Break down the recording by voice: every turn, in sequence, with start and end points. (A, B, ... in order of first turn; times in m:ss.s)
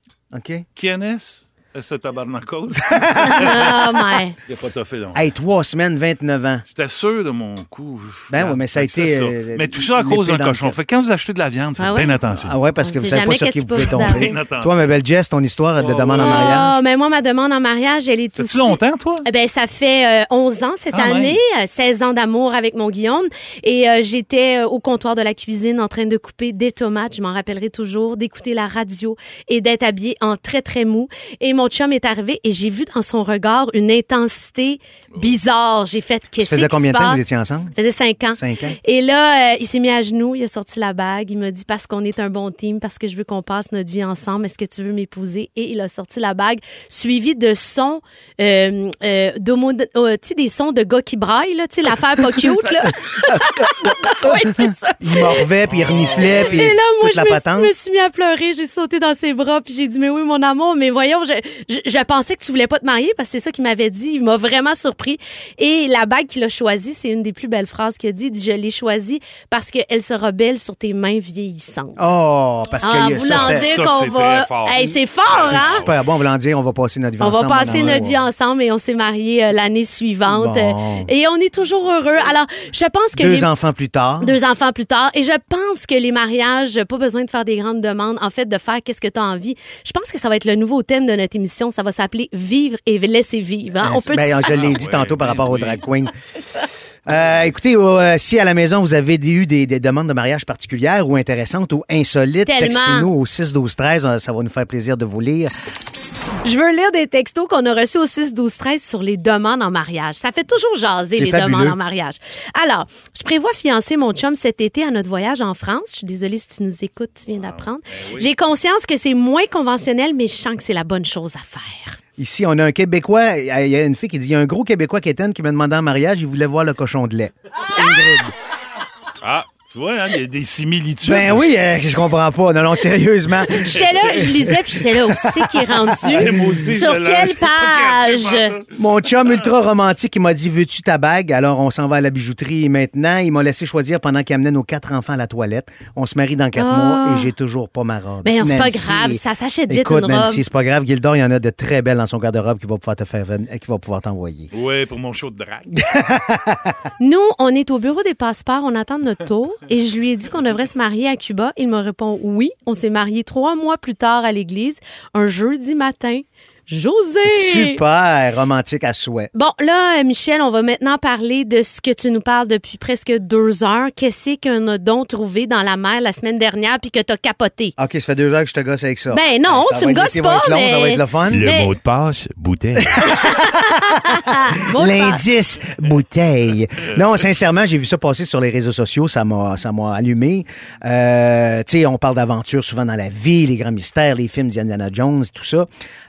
0:00.3-0:00.6 A
0:00.8-0:03.8 B
0:02.9-0:03.6 A
0:03.2-0:04.4 C
0:04.5-0:05.2 B
0:05.1-0:06.6 A
0:06.7-0:12.6 B
0:08.3-0:10.8 A
0:11.8-0:12.1 C
0:12.3-0:16.8 A
0:12.8-0:14.3 C
0:13.8-0:15.0 B
0:15.8-0:16.7 B
0:16.2-0:37.2 C
0:18.4-0:19.2 B
0:20.9-0:21.4 B
0:36.4-0:37.7 A
0:37.8-0:55.5 C
0:38.3-0:38.8 A
0:53.3-0:57.7 A
0:55.7-0:56.7 B
0:56.2-1:12.1 C
1:12.0-1:13.7 A
1:12.8-1:15.8 C
1:13.3-1:16.0 B
1:15.4-1:18.2 A
1:17.2-1:23.5 C
1:20.3-1:21.1 A
1:23.1-1:24.4 A
1:24.2-1:34.5 C
1:33.8-1:36.1 A
1:34.5-1:35.8 B
1:37.1-1:45.5 A
1:42.5-1:43.1 C
1:46.4-2:02.0 C
1:51.1-1:51.8 A
1:57.4-1:58.3 B
2:02.2-2:08.3 A
2:09.2-2:11.6 B
2:11.0-2:16.6 A
2:13.5-2:18.6 C
2:16.0-2:18.7 B
2:18.8-2:34.5 A
2:26.6-2:27.3 C
2:28.2-2:30.4 C
2:34.5-2:36.0 B
2:35.8-2:36.7 A
2:37.0-2:47.8 C
2:47.3-2:49.3 A
2:49.3-2:57.8 C
2:57.8-3:01.5 A
2:59.1-3:01.7 C
3:01.3-3:03.1 B
3:03.0-3:03.5 A
3:03.0-3:05.2 C
3:04.7-3:15.7 A